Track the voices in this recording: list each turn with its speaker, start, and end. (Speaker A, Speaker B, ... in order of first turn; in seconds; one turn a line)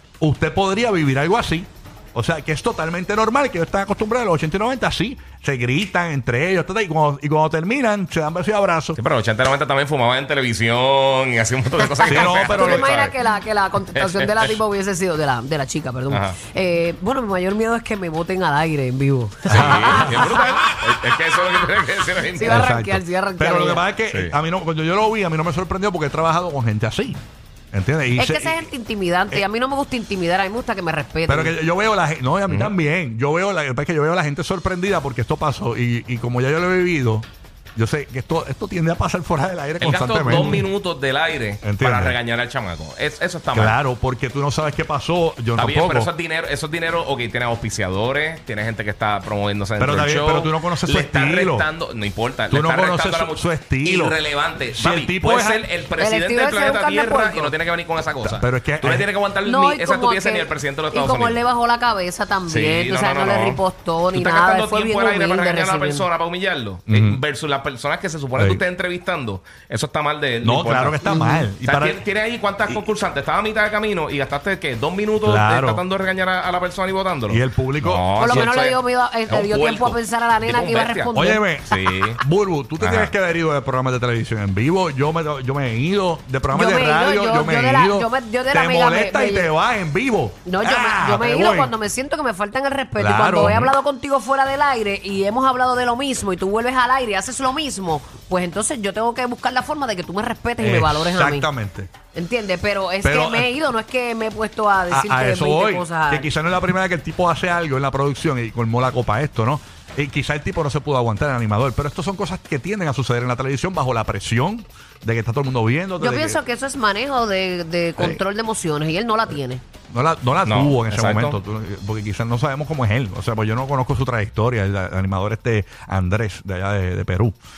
Speaker A: 0.2-9.0
Speaker B: 8.9-13.2
Speaker A: 12.0-13.0
Speaker C: 12.1-20.6
Speaker B: 13.9-14.5
Speaker B: 16.1-16.4
Speaker A: 19.5-20.5
Speaker B: 19.5-22.7
Speaker C: 22.3-23.9
Speaker A: 22.4-28.7
Speaker B: 24.1-24.4
Speaker C: 28.2-31.6
Speaker A: 31.3-40.7
Speaker B: 32.5-32.7
Speaker B: 39.8-43.8
Speaker A: 41.6-42.2
Speaker A: 43.5-46.1
Speaker B: 45.5-61.4
Speaker A: 49.8-51.7
Speaker A: 52.5-54.2
Speaker A: 54.7-55.7
Speaker C: 56.0-57.5
Speaker A: 58.3-59.1
Speaker C: 59.4-66.1
Speaker B: 62.5-63.6
Speaker B: 64.1-81.1
Speaker A: 66.9-67.2
Speaker A: 68.3-68.6
Speaker A: 70.4-72.0
Speaker C: 71.0-71.5
Speaker A: 75.2-75.8
Speaker A: 77.3-78.5
Speaker C: 78.2-81.4
Speaker A: 81.1-91.7
Speaker B: 81.7-82.2
Speaker B: 82.8-83.1
Speaker C: 86.5-89.5
Speaker C: 90.5-101.5
Speaker A: 93.0-93.7
Speaker A: 100.6-101.9
Speaker C: 102.1-106.3
Speaker A: 103.0-103.5
Speaker A: 104.9-116.4
Speaker C: 116.0-119.6
Speaker A: 119.9-127.4
Speaker B: 120.4-121.4